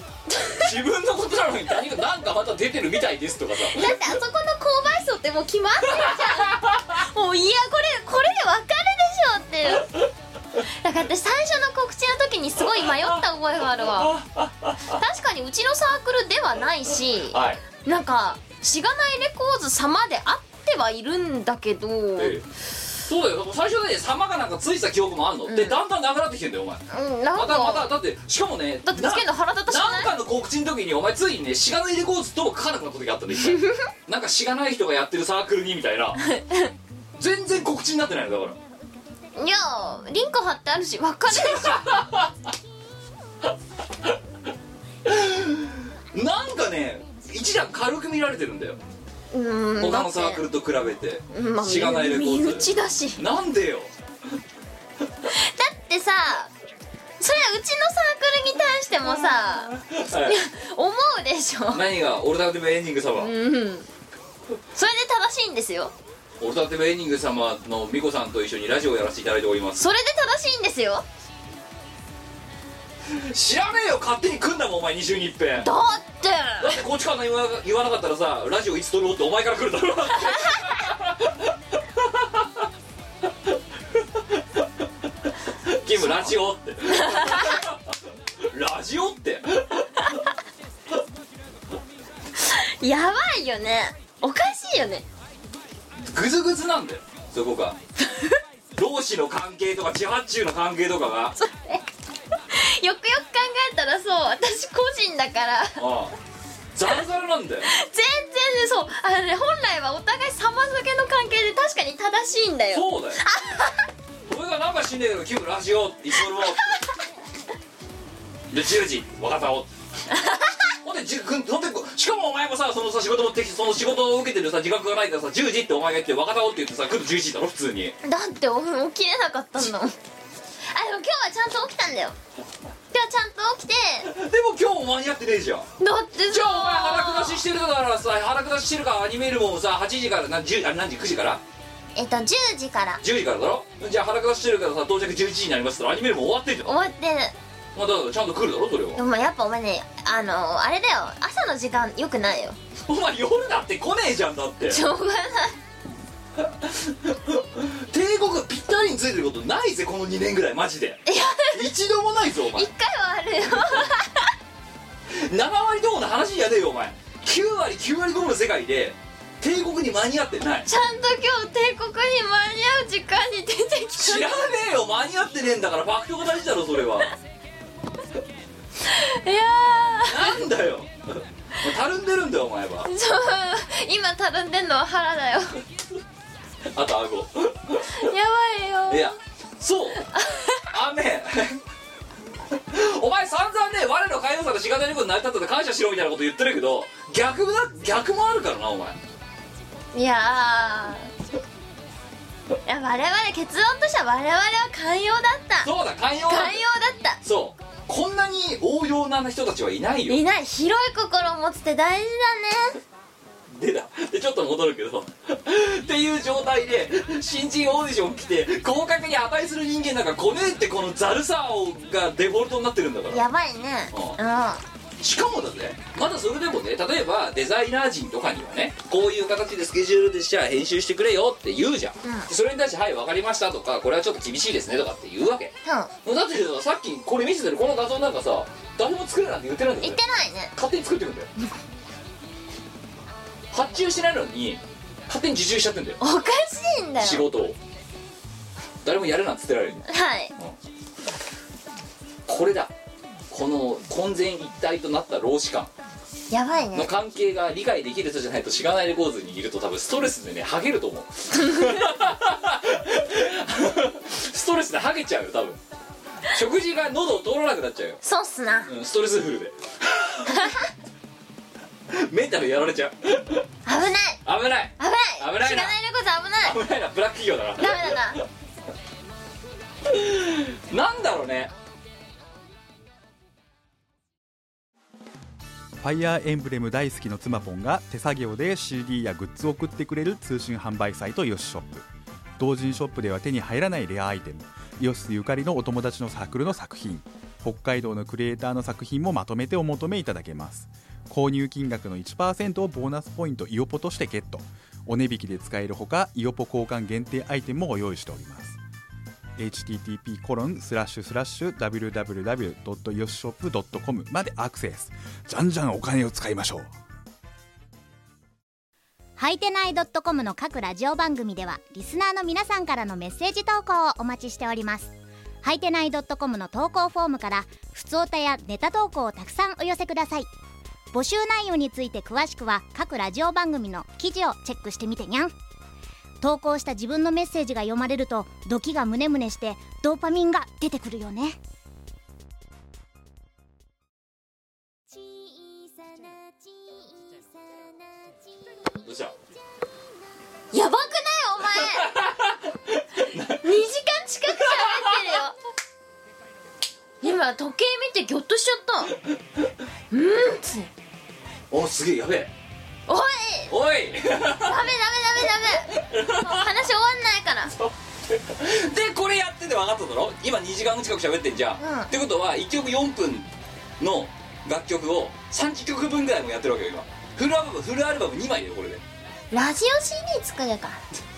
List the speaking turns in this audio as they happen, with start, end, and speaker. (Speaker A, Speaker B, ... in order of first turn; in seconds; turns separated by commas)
Speaker A: 0.4-0.6, Speaker B: 0.5-4.0, Speaker A: 3.6-9.9, Speaker B: 5.9-6.8, Speaker A: 10.6-14.2, Speaker B: 12.6-13.2, Speaker B: 13.8-15.0, Speaker A: 14.9-22.4, Speaker B: 17.3-17.6, Speaker B: 22.2-22.4, Speaker B: 23.0-36.2, Speaker A: 25.4-25.8, Speaker A: 26.9-27.9, Speaker A: 28.9-30.1, Speaker A: 33.4-33.8, Speaker A: 36.2-36.7, Speaker B: 37.2-38.6, Speaker A: 39.4-42.0, Speaker B: 41.3-42.5, Speaker B: 45.0-48.8, Speaker A: 49.3-50.4, Speaker B: 49.8-53.9, Speaker A: 51.3-53.2, Speaker A: 55.3-56.5, Speaker A: 57.2-59.7, Speaker B: 59.1-60.4, Speaker A: 60.2-61.8, Speaker B: 61.7-63.3, Speaker A: 63.2-63.9, Speaker A: 64.7-65.9, Speaker B: 66.4-69.8, Speaker A: 69.8-71.0, Speaker B: 73.1-75.7, Speaker A: 75.6-76.8, Speaker B: 76.6-82.5, Speaker A: 80.3-80.6, Speaker B: 83.5-84.7, Speaker B: 85.7-90.2, Speaker A: 86.0-86.3, Speaker A: 86.9-87.6, Speaker A: 92.3-95.0, Speaker B: 96.0-97.8, Speaker A: 98.1-98.4, Speaker B: 98.8-101.3, Speaker A: 101.4-101.8, Speaker A: 102.5-105.8, Speaker B: 105.8-106.1, Speaker B: 106.7-107.7, Speaker A: 107.7-113.8, Speaker B: 112.7-113.2, Speaker B: 114.3-116.7, Speaker A: 116.2-116.8, Speaker B: 118.5-119.7, Speaker A: 120.1-120.6, Speaker B: 120.8-128.0, Speaker A: 128.0-129.9, Speaker A: 130.7-132.2, Speaker A: 132.9-134.1, Speaker B: 134.1-135.7, Speaker A: 135.8-137.4, Speaker B: 136.3-141.4, Speaker A: 141.9-143.0, Speaker B: 143.0-146.7, Speaker A: 146.6-147.3, Speaker B: 147.7-149.0, Speaker A: 148.9-152.6, Speaker B: 152.9-154.8, Speaker A: 154.7-155.6, Speaker B: 156.4-162.7, Speaker A: 161.1-161.7, Speaker A: 162.6-164.3, Speaker B: 165.1-170.7, Speaker A: 170.7-174.3, Speaker B: 174.0-177.1, Speaker A: 178.8-180.4, Speaker B: 180.0-182.9, Speaker A: 182.8-185.6, Speaker B: 186.7-188.1, Speaker A: 187.9-189.1, Speaker B: 188.9-190.1, Speaker A: 190.1-190.6, Speaker B: 190.7-191.6, Speaker B: 192.7-199.0, Speaker A: 199.9-201.1, Speaker A: 202.7-205.7, Speaker B: 205.6-206.6, Speaker A: 206.3-207.2, Speaker B: 207.2-210.2, Speaker A: 210.1-212.8, Speaker B: 213.5-223.2, Speaker A: 223.1-224.6, Speaker B: 223.9-224.2, Speaker B: 225.0-240.0, Speaker A: 232.0-232.3, Speaker A: 235.6-235.9, Speaker A: 239.8-240.5, Speaker B: 240.5-241.3, Speaker B: 243.5-246.0, Speaker A: 246.0-247.3, Speaker B: 247.0-247.6, Speaker B: 248.8-250.6, Speaker A: 249.9-250.3, Speaker B: 252.3-252.7, Speaker B: 253.3-255.7, Speaker A: 256.3-256.9, Speaker B: 256.7-265.6, Speaker B: 266.3-268.0, Speaker A: 268.0-268.7, Speaker B: 268.7-270.6, Speaker A: 270.3-270.6, Speaker B: 271.9-273.4, Speaker A: 273.6-274.2, Speaker B: 274.2-275.8, Speaker A: 274.8-276.6, Speaker B: 276.4-278.2, Speaker A: 277.6-278.2, Speaker B: 279.9-281.5, Speaker C: 285.8-291.9, Speaker C: 292.4-308.6, Speaker C: 309.4-316.7, Speaker D: 319.2-330.3, Speaker D: 330.9-335.3, Speaker D: 336.2-341.4, Speaker B: 348.8-349.1, Speaker A: 350.5-351.9, Speaker B: 351.6-353.5, Speaker A: 353.4-355.4, Speaker B: 354.4-355.0, Speaker A: 357.0-358.9, Speaker A: 359.9-360.7, Speaker B: 361.5-362.3, Speaker A: 362.9-363.5, Speaker B: 363.5-364.6, Speaker A: 364.4-367.5, Speaker B: 365.8-366.6, Speaker B: 367.5-373.3, Speaker A: 371.6-371.9, Speaker B: 373.8-378.8, Speaker A: 379.3-380.8